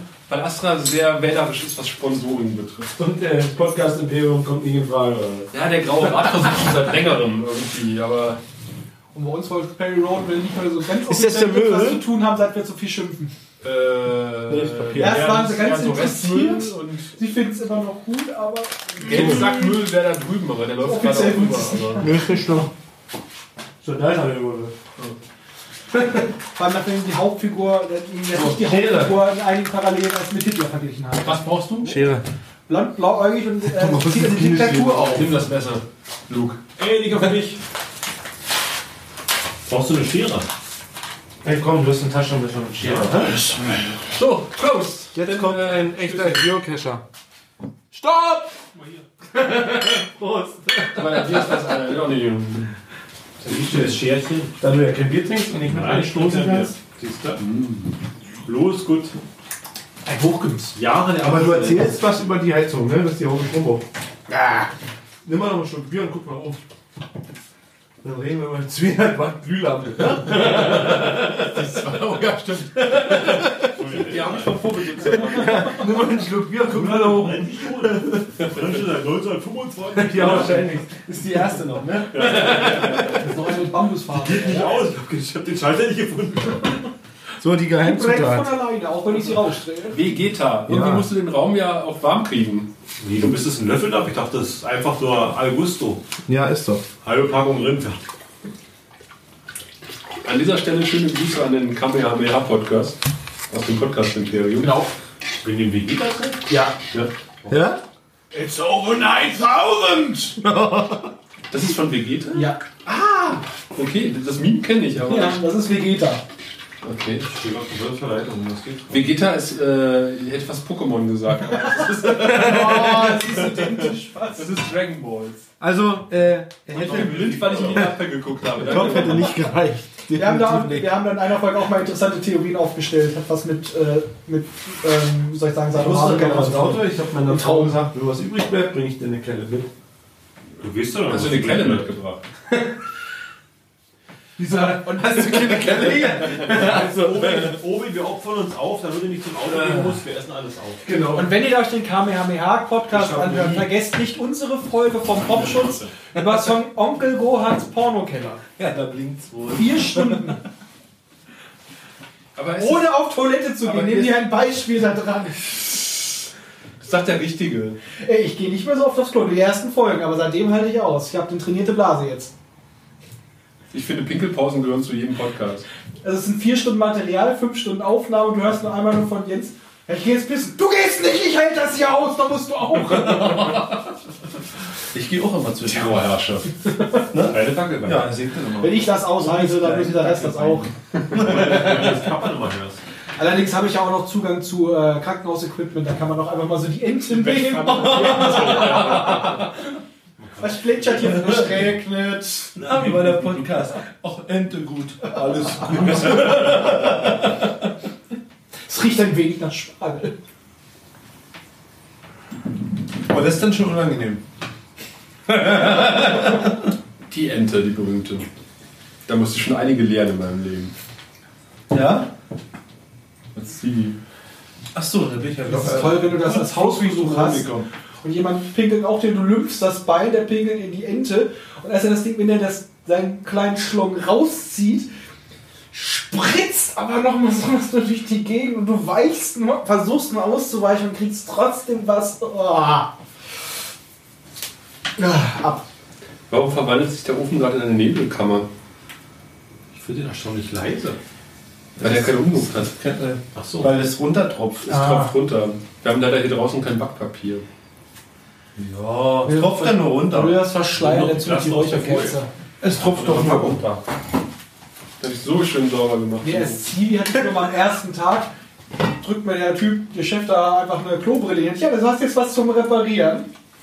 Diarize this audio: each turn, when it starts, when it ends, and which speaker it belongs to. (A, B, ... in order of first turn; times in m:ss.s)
0:00.3-0:02.9 A
0:03.0-0:05.5 B
0:05.5-0:08.4 A
0:09.1-0:13.3 C
0:11.0-0:12.0 B
0:13.6-0:17.2 A
0:14.5-0:15.4 B
0:15.0-0:19.7 C
0:19.0-0:22.1 A
0:19.1-0:19.5 B
0:20.8-0:22.4 C
0:22.0-0:22.7 B
0:23.8-0:24.7 B
0:26.2-0:31.4 C
0:28.3-0:29.3 B
0:31.2-0:32.0 A
0:31.8-0:32.2 B
0:32.7-0:35.3 C
0:33.6-0:35.3 B
0:35.1-0:36.6 A
0:36.8-0:37.6 D
0:39.6-0:40.5 D
0:41.4-0:43.5 B
0:42.8-0:43.9 D
0:43.2-0:43.6 C
0:44.1-0:46.5 A
0:45.1-0:47.0 B
0:47.9-0:48.5 B
0:48.7-0:49.0 D
0:49.3-0:51.8 B
0:50.9-0:52.7 A
0:53.4-0:54.5 D
0:53.5-0:54.0 B
0:54.6-0:56.7 B
0:55.6-0:57.5 D
0:57.4-0:57.9 A
0:58.4-0:59.2 D
1:00.0-1:00.8 C
1:00.7-1:01.9 D
1:01.2-1:04.7 B
1:05.2-1:06.6 B
1:08.0-1:14.0 B
1:10.4-1:15.8 A
1:13.5-1:14.6 D
1:14.9-1:18.3 B
1:16.6-1:20.8 D
1:19.9-1:23.2 B
1:22.1-1:23.2 A
1:22.1-1:23.2 D
1:23.1-1:24.9 C
1:24.1-1:26.8 D
1:27.4-1:28.6 B
1:27.8-1:30.1 C
1:29.9-1:32.7 A
1:30.7-1:31.1 B
1:33.0-1:36.0 D
1:36.3-1:36.8 B
1:37.0-1:38.0 D
1:40.2-1:43.0 A
1:43.5-1:44.8 A
1:44.6-1:44.9 C
1:45.4-1:47.5 D
1:46.5-1:46.8 C
1:47.5-1:47.8 B
1:48.3-1:50.4 C
1:50.4-1:51.1 B
1:51.5-1:52.5 A
1:52.3-1:53.4 C
1:53.7-1:55.4 A
1:55.1-1:56.2 C
1:56.8-1:57.3 A
1:57.2-1:59.1 D
1:58.9-2:05.5 A
2:01.9-2:04.6 C
2:02.1-2:03.4 B
2:05.6-2:08.0 B
2:06.7-2:09.4 A
2:06.7-2:07.9 D
2:08.5-2:11.0 B
2:10.1-2:17.8 C
2:15.7-2:19.7 B
2:20.6-2:21.9 D
2:21.1-2:22.2 A
2:24.4-2:27.6 B
2:24.4-2:26.2 C
2:26.2-2:30.9 D
2:29.5-2:30.0 B
2:30.8-2:31.4 B
2:31.1-2:38.4 C
2:32.9-2:33.6 B
2:38.6-2:40.4 B
2:39.5-2:40.4 C
2:42.4-2:43.0 A
2:42.6-2:45.6 C
2:43.6-2:44.2 B
2:46.8-2:47.8 A
2:48.0-2:52.3 C
2:53.7-2:55.6 A
2:56.0-3:03.6 C
3:03.0-3:03.6 B
3:04.9-3:06.1 B
3:05.6-3:06.5 A
3:07.1-3:11.7 B
3:07.1-3:08.2 D
3:08.6-3:10.7 C
3:11.1-3:12.8 D
3:13.2-3:19.4 C
3:17.1-3:19.2 A
3:17.6-3:19.3 B
3:20.2-3:21.4 D
3:20.4-3:22.6 C
3:21.0-3:21.7 B
3:22.5-3:27.4 B
3:22.6-3:23.2 D
3:28.6-3:30.1 C
3:33.1-3:34.2 B
3:35.3-3:36.5 B
3:37.1-3:38.3 A
3:39.1-3:40.7 A
3:41.7-3:42.1 B
3:43.3-3:44.0 A
3:44.7-3:47.6 B
3:45.4-3:54.9 C
3:55.7-4:02.9 C
4:05.0-4:05.6 C
4:06.3-4:08.5 A
4:09.7-4:11.0 D
4:11.8-4:12.7 A
4:11.8-4:14.9 B
4:13.3-4:13.7 D
4:14.6-4:17.4 A
4:14.7-4:15.1 C
4:18.6-4:20.4 B
4:19.2-4:22.3 C
4:20.8-4:22.2 D
4:22.6-4:23.8 B
4:22.8-4:23.6 D
4:25.0-4:26.7 A
4:26.2-4:28.3 C
4:28.8-4:33.3 C